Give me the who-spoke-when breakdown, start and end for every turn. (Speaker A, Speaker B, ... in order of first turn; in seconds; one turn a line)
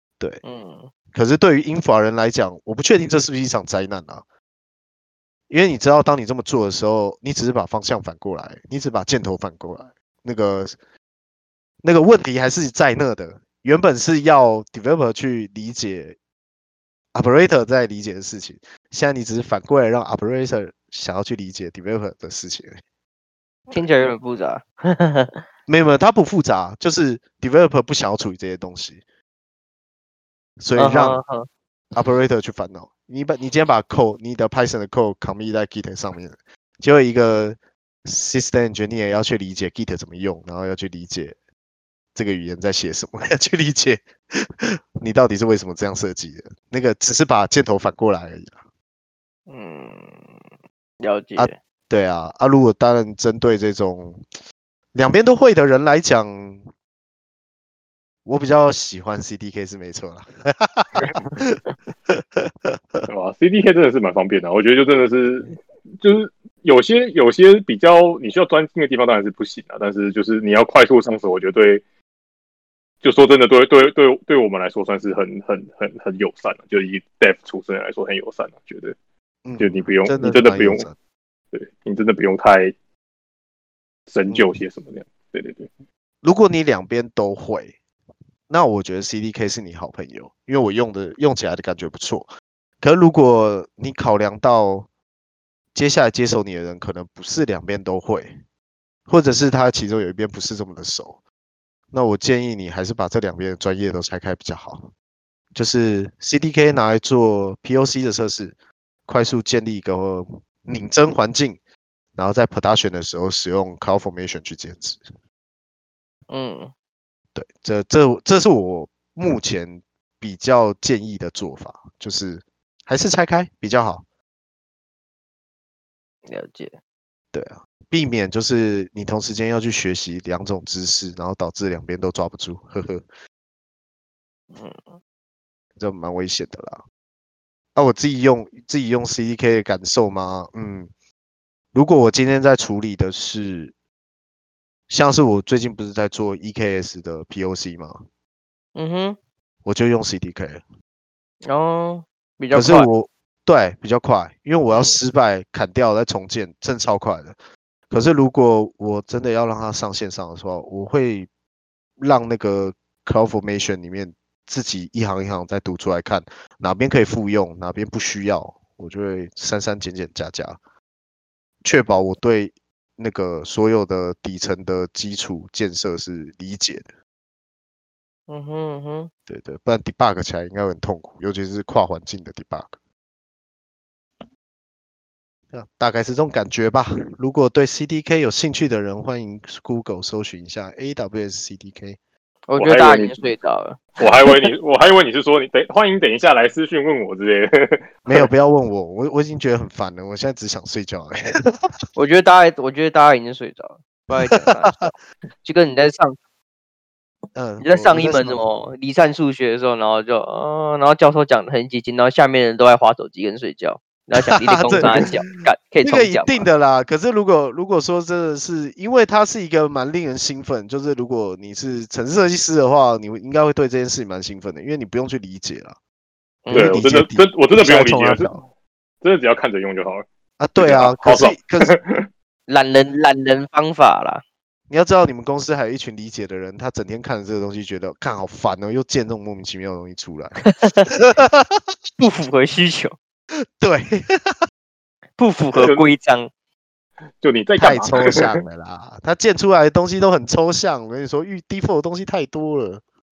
Speaker A: 0.4-0.9
Speaker B: 1.1-4.2
Speaker B: 5.5-10.8
Speaker B: 11.8-16.2
Speaker B: 17.1-22.8
Speaker A: 23.7-25.4
Speaker B: 25.7-29.0
Speaker B: 30.6-31.2
Speaker A: 30.8-31.5
Speaker B: 31.9-41.4
Speaker B: 42.1-48.6
Speaker A: 49.5-50.2
Speaker A: 51.0-51.5
Speaker B: 51.4-54.2
Speaker B: 54.9-56.7
Speaker B: 58.2-63.1
Speaker C: 63.1-71.8
Speaker C: 73.0-79.0
Speaker B: 79.5-81.0
Speaker C: 79.6-80.9
Speaker C: 81.5-82.7
Speaker C: 84.1-85.7
Speaker B: 84.3-84.5
Speaker B: 86.2-87.8
Speaker B: 88.5-92.3
Speaker B: 92.8-94.9
Speaker B: 95.7-98.3
Speaker B: 99.1-101.2
Speaker B: 101.9-104.9
Speaker B: 105.5-108.5
Speaker B: 109.1-111.6
Speaker B: 112.2-115.0
Speaker A: 116.3-116.7
Speaker B: 117.3-124.0
Speaker A: 126.3-126.8
Speaker B: 127.3-133.0
Speaker A: 134.5-134.9
Speaker B: 135.8-136.8
Speaker B: 137.8-140.9
Speaker B: 141.7-143.7
Speaker B: 144.9-148.0
Speaker A: 148.8-149.2
Speaker B: 149.7-150.6
Speaker A: 151.5-152.9
Speaker B: 152.5-157.3
Speaker B: 157.9-161.3
Speaker B: 162.0-170.6
Speaker B: 171.6-176.9
Speaker A: 178.3-179.1
Speaker B: 179.3-182.8
Speaker B: 185.5-192.0
Speaker A: 192.5-193.9
Speaker C: 192.6-193.2
Speaker C: 194.0-198.3
Speaker B: 198.1-201.5
Speaker A: 202.0-206.2
Speaker B: 204.2-204.9
Speaker B: 207.3-208.5
Speaker A: 207.6-216.5
Speaker B: 214.2-215.1
Speaker B: 215.8-225.8
Speaker A: 226.5-226.7
Speaker B: 226.5-228.4
Speaker C: 226.5-228.4
Speaker C: 229.0-230.1
Speaker B: 230.4-231.8
Speaker C: 230.6-232.1
Speaker A: 232.5-234.2
Speaker B: 234.7-241.6
Speaker A: 240.4-240.9
Speaker A: 242.0-242.9
Speaker B: 243.6-244.4
Speaker A: 245.2-246.3
Speaker C: 245.6-245.9
Speaker C: 247.2-248.4
Speaker B: 247.6-252.8